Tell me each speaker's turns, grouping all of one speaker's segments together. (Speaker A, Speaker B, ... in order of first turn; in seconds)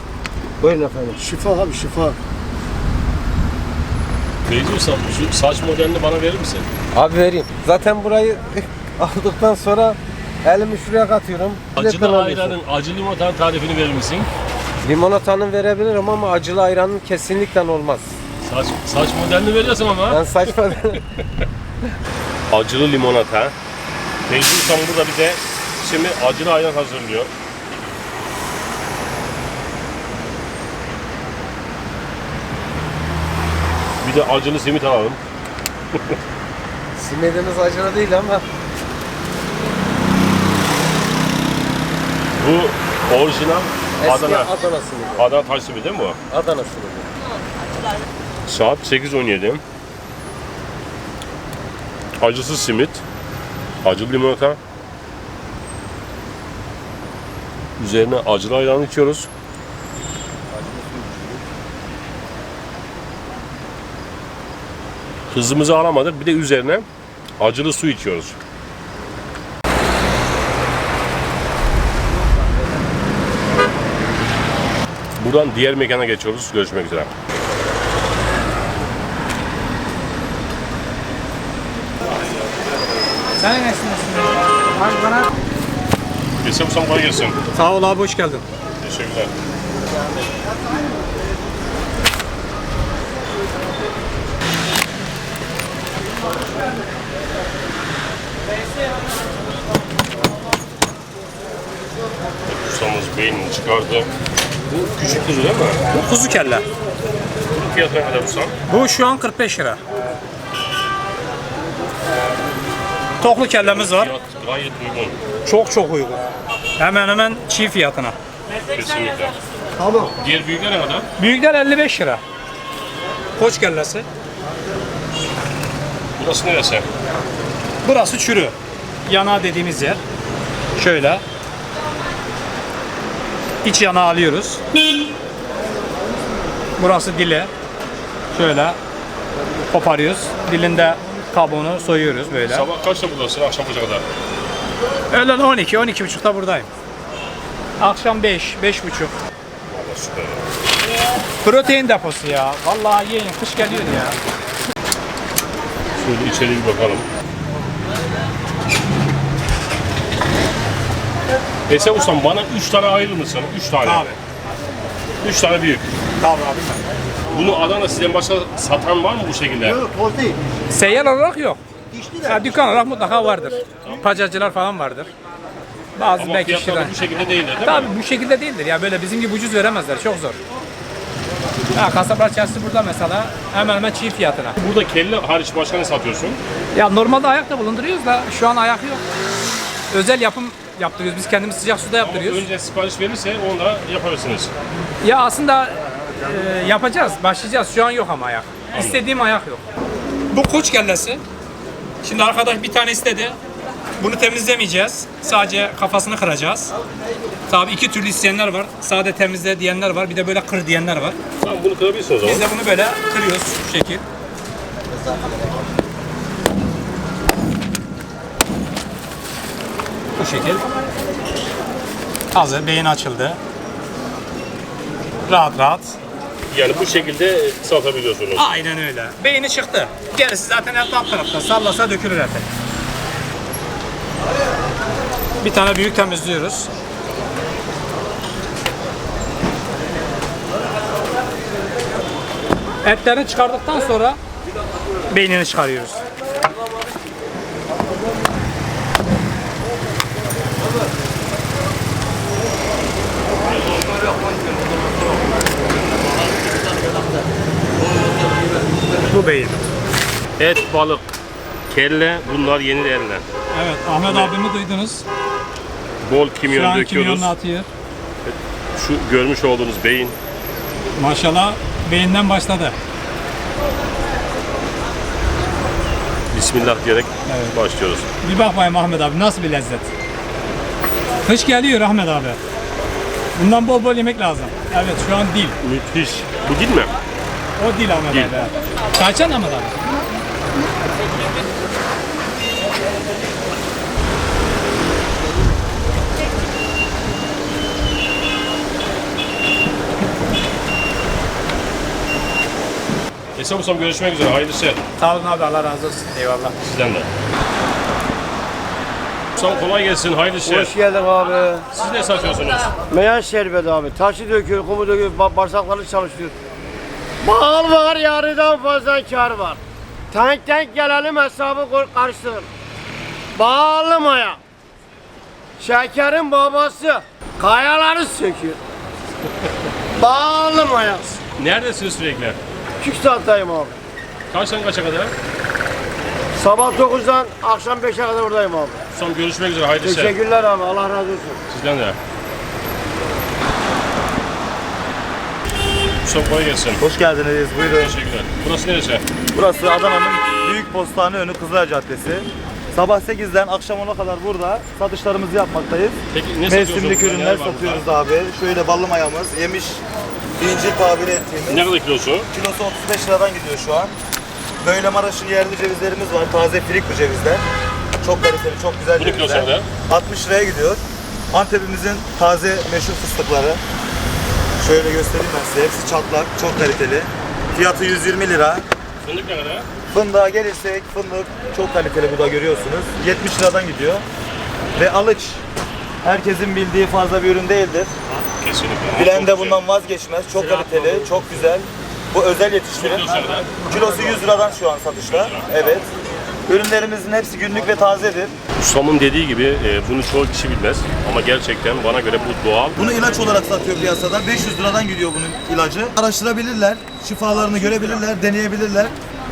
Speaker A: 0.6-1.2, 6.9-12.6, 14.8-18.1, 20.1-21.1, 37.0-38.4, 44.0-45.3, 46.3-47.1
Speaker B: 1.2-2.2, 169.9-170.3, 310.4-311.7, 312.9-316.4, 317.2-319.6, 320.1-322.5, 323.4-324.4, 325.6-328.6, 330.0-331.2, 332.8-333.8, 336.4-338.8, 339.8-341.4
Speaker C: 4.5-6.7, 11.8-14.3, 18.4-20.4, 22.5-23.5, 24.3-27.3, 34.0-35.2, 42.4-44.5, 45.2-46.2, 48.5-49.6, 52.2-53.0, 53.8-54.6, 57.8-59.3, 65.3-66.9, 67.4-68.4, 75.2-77.1, 86.4-87.4, 88.8-89.3, 102.5-104.1, 104.7-105.8, 107.5-108.5, 113.5-115.2, 118.7-119.4, 120.2-121.1, 126.2-126.9, 142.5-144.0, 149.7-150.4, 156.0-157.1, 161.7-164.2, 165.2-165.9, 167.3-169.9, 176.2-177.9, 184.6-186.4, 192.0-194.5, 198.7-199.0, 211.4-212.5, 226.5-228.5, 260.4-261.1, 261.7-263.3, 264.1-264.3, 266.0-267.3, 268.2-270.2, 276.3-278.1, 285.6-286.9, 303.4-304.8, 306.6-307.1, 309.4-310.8, 311.7-312.7, 331.4-332.4, 334.3-335.1, 338.9-340.2, 341.5-342.0, 346.0-346.8, 347.7-349.0, 356.1-357.9, 361.5-362.3, 368.9-369.7, 379.0-379.7, 388.2-389.6, 392.7-393.5, 395.1-395.8, 398.6-402.8
Speaker D: 83.4-85.3, 87.5-88.5, 105.9-106.7, 108.7-109.8, 113.2-114.1, 115.5-116.2, 116.8-118.2, 121.2-122.2, 123.4-124.1, 127.8-128.6, 129.1-130.0, 130.8-131.2, 133.6-134.6, 136.8-137.5, 138.3-138.8, 139.7-142.7, 145.1-146.7, 147.8-149.1, 151.4-154.2, 163.8-164.2, 166.2-166.8, 170.7-171.6, 172.2-175.1, 176.0-177.0, 177.6-180.4, 181.7-184.6, 186.7-189.0, 189.9-192.4, 195.0-199.6, 200.3-201.2, 202.0-203.4, 204.0-206.7, 207.5-211.2, 212.2-214.0, 220.2-220.6, 222.3-223.4, 225.3-226.0, 228.4-232.5, 235.4-236.7, 242.8-244.2, 245.1-246.0, 259.1-259.6, 263.5-265.1, 266.5-267.7, 271.0-272.8, 277.3-277.6, 278.2-279.9, 281.2-282.4, 283.4-285.6, 287.6-289.7, 305.0-306.6
Speaker E: 346.8-347.9, 349.3-359.8, 360.4-361.7, 362.3-363.9, 364.6-367.4, 368.0-373.6, 374.6-378.6, 379.9-384.1, 384.8-385.4, 386.0-387.9, 388.9-395.9, 396.5-398.4, 402.8-408.9